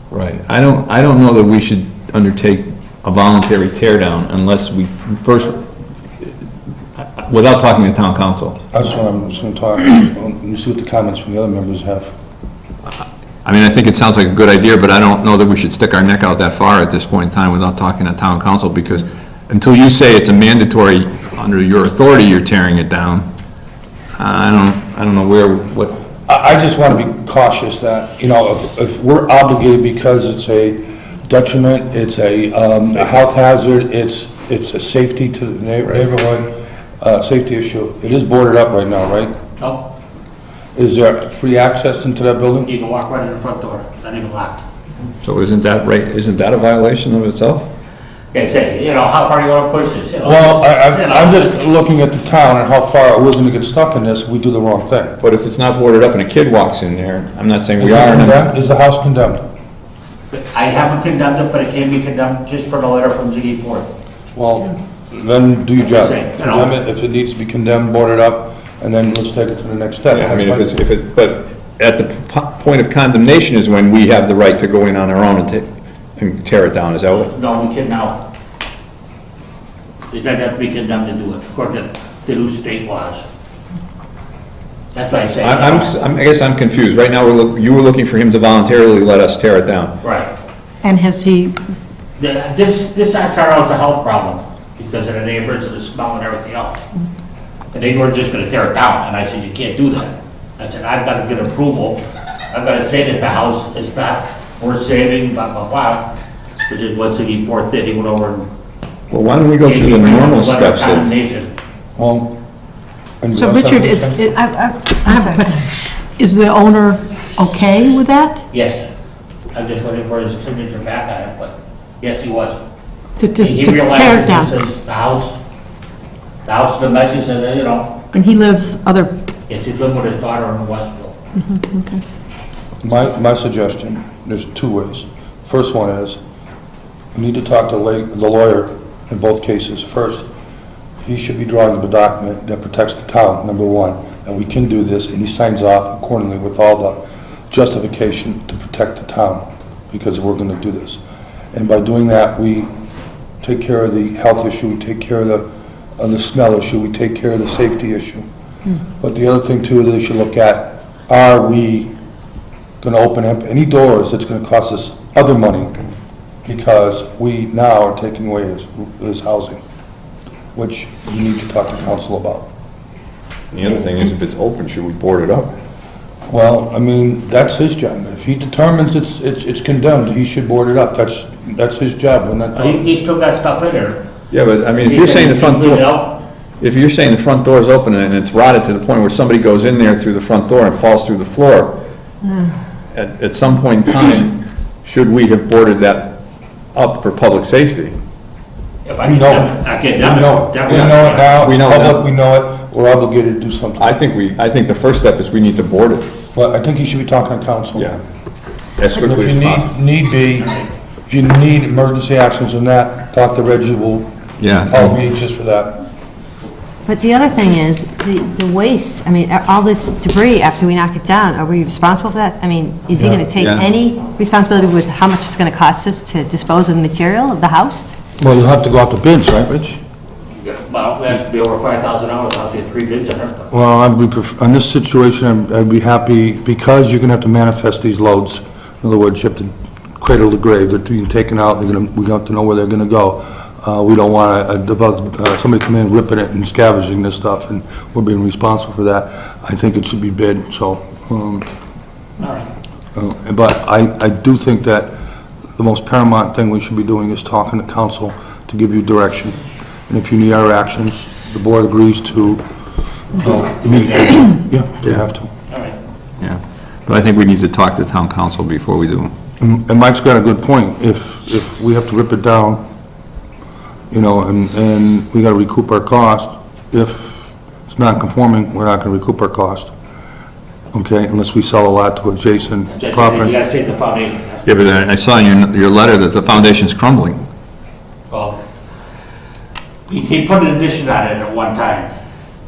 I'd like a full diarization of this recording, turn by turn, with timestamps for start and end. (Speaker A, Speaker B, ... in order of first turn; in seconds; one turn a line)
Speaker A: 0.1-5.6
Speaker A: 7.0-8.6
Speaker B: 8.7-12.1
Speaker A: 13.4-23.3
Speaker A: 24.2-26.0
Speaker B: 26.3-39.4
Speaker B: 40.8-42.7
Speaker C: 42.7-44.6
Speaker A: 45.2-47.7
Speaker C: 48.3-51.5
Speaker B: 50.2-55.2
Speaker A: 55.2-58.5
Speaker B: 57.8-59.4
Speaker C: 60.3-63.9
Speaker B: 64.3-70.7
Speaker C: 65.8-66.7
Speaker A: 70.1-77.3
Speaker C: 77.3-78.2
Speaker C: 80.1-83.2
Speaker C: 84.9-85.9
Speaker A: 85.4-90.0
Speaker C: 90.0-90.3
Speaker D: 90.8-91.6
Speaker C: 92.2-96.8
Speaker C: 97.7-106.0
Speaker C: 106.7-108.5
Speaker A: 109.1-111.1
Speaker C: 109.6-111.5
Speaker B: 112.0-112.3
Speaker B: 113.2-114.3
Speaker D: 113.3-118.5
Speaker E: 114.3-115.5
Speaker C: 118.5-118.8
Speaker C: 119.5-122.6
Speaker D: 123.2-124.5
Speaker C: 123.4-125.4
Speaker C: 126.5-128.0
Speaker D: 128.1-129.1
Speaker C: 129.5-131.2
Speaker D: 131.4-132.0
Speaker B: 132.8-136.2
Speaker B: 137.1-140.2
Speaker B: 141.0-151.0
Speaker B: 151.5-152.7
Speaker B: 153.4-155.5
Speaker B: 156.0-158.3
Speaker B: 159.0-161.9
Speaker B: 162.8-165.8
Speaker B: 166.4-169.6
Speaker B: 170.5-172.5
Speaker A: 173.5-175.5
Speaker B: 176.3-182.8
Speaker C: 182.6-184.0
Speaker A: 184.3-185.9
Speaker C: 184.8-186.2
Speaker A: 186.6-191.8
Speaker A: 192.9-196.2
Speaker A: 196.8-198.0
Speaker C: 198.8-201.3
Speaker B: 199.0-204.0
Speaker A: 200.7-202.0
Speaker A: 203.8-206.1
Speaker B: 206.3-208.0
Speaker A: 208.8-209.7
Speaker B: 208.9-214.1
Speaker A: 214.4-214.9
Speaker B: 214.6-215.8
Speaker E: 216.9-227.9
Speaker A: 223.4-223.7
Speaker B: 228.2-229.8
Speaker C: 230.4-233.5
Speaker B: 233.5-251.5
Speaker C: 252.2-252.5
Speaker B: 252.9-254.9
Speaker B: 255.6-262.4
Speaker B: 263.1-265.3
Speaker C: 265.5-265.8
Speaker A: 266.2-269.1
Speaker B: 269.4-272.6
Speaker B: 273.9-279.7
Speaker B: 280.7-283.3
Speaker C: 282.7-284.5
Speaker A: 284.5-287.2
Speaker C: 288.1-288.4
Speaker C: 289.9-291.9